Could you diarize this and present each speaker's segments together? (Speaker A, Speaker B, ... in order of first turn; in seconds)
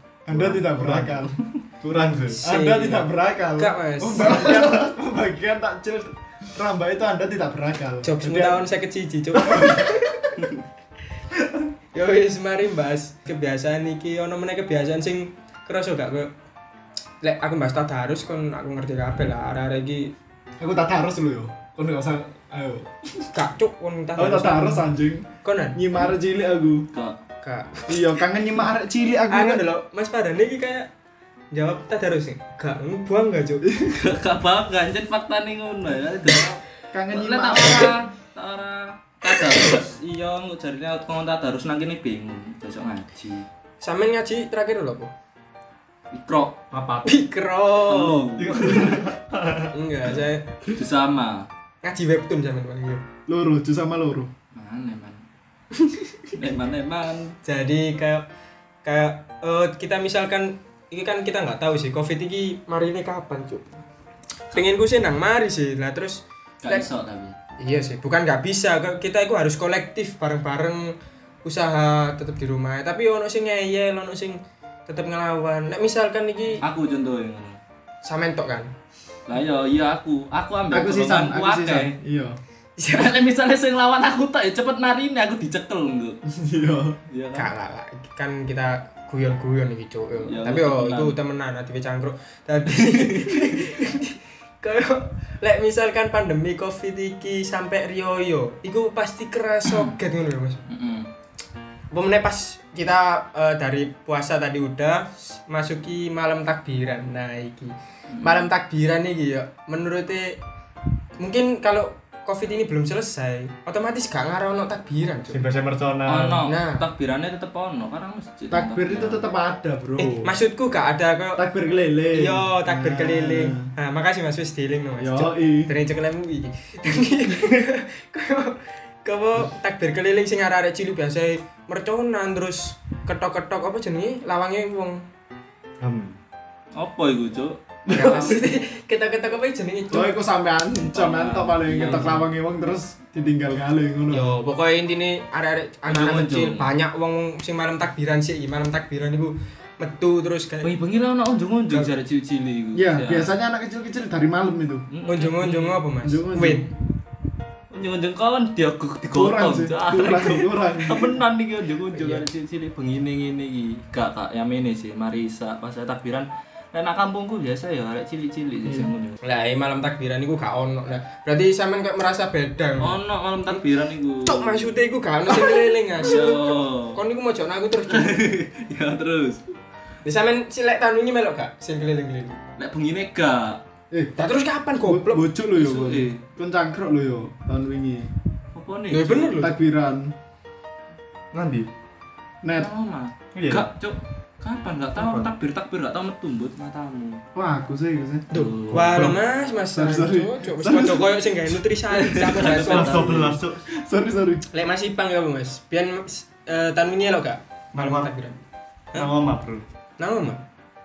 Speaker A: 0.2-1.3, 2.4-8.6, 20.6-23.3, 24.1-26.9, 27.9-29.6, 36.9-38.0, 53.3-54.3, 80.7-82.4, 86.3-87.0, 118.5-120.3, 121.3-123.7, 125.0-125.7, 137.9-138.4, 139.9-144.3, 152.7-154.8, 156.0-156.7, 159.1-161.2, 184.8-188.1, 189.4-190.1, 192.4-192.7, 197.3-198.2, 199.7-201.2, 203.7-204.4
Speaker B: 0.3-2.4, 4.2-4.9, 46.7-47.1, 48.4-49.7, 115.3-116.4, 135.8-136.2, 191.3-191.7, 193.3-193.7, 194.9-195.3, 202.4-203.6, 207.7-208.1, 208.9-209.6
Speaker C: 2.4-4.6, 8.0-10.2, 11.9-16.3, 17.2-20.1, 23.3-24.9, 25.4-25.8, 27.4-28.1, 29.3-30.9, 31.5-33.6, 43.8-45.1, 47.0-48.4, 49.7-50.6, 51.8-53.0, 55.7-56.3, 57.4-58.2, 58.8-63.7, 64.5-66.9, 67.6-70.9, 71.4-76.6, 78.0-78.7, 82.8-83.2, 87.3-100.6, 101.9-110.4, 111.2-115.4, 116.4-116.8, 120.0-121.4, 122.1-135.0, 137.9-140.1, 144.1-150.7, 155.1-156.7, 161.9-162.2, 168.7-173.6, 174.2-178.4, 180.0-182.4, 184.2-185.3, 188.9-189.6, 198.3-203.1, 204.5-208.4, 210.0-210.4
Speaker D: 33.8-43.4, 46.1-46.5, 47.9-49.0, 50.7-51.5, 54.5-55.2, 56.3-57.3, 66.6-67.3, 76.6-77.6, 79.2-82.0, 82.9-86.2, 87.1-87.5, 90.2-91.1, 92.8-93.6, 99.7-99.9, 100.7-101.1, 108.1-108.4, 116.1-119.3, 136.8-138.4, 140.8-142.3, 145.9-146.7, 150.6-153.3, 154.9-155.8, 157.7-169.2, 172.8-174.7, 175.3-177.0, 177.9-179.5, 182.6-183.6, 185.5-186.2, 188.5-189.4, 192.6-197.2, 198.3-199.1, 201.9-203.4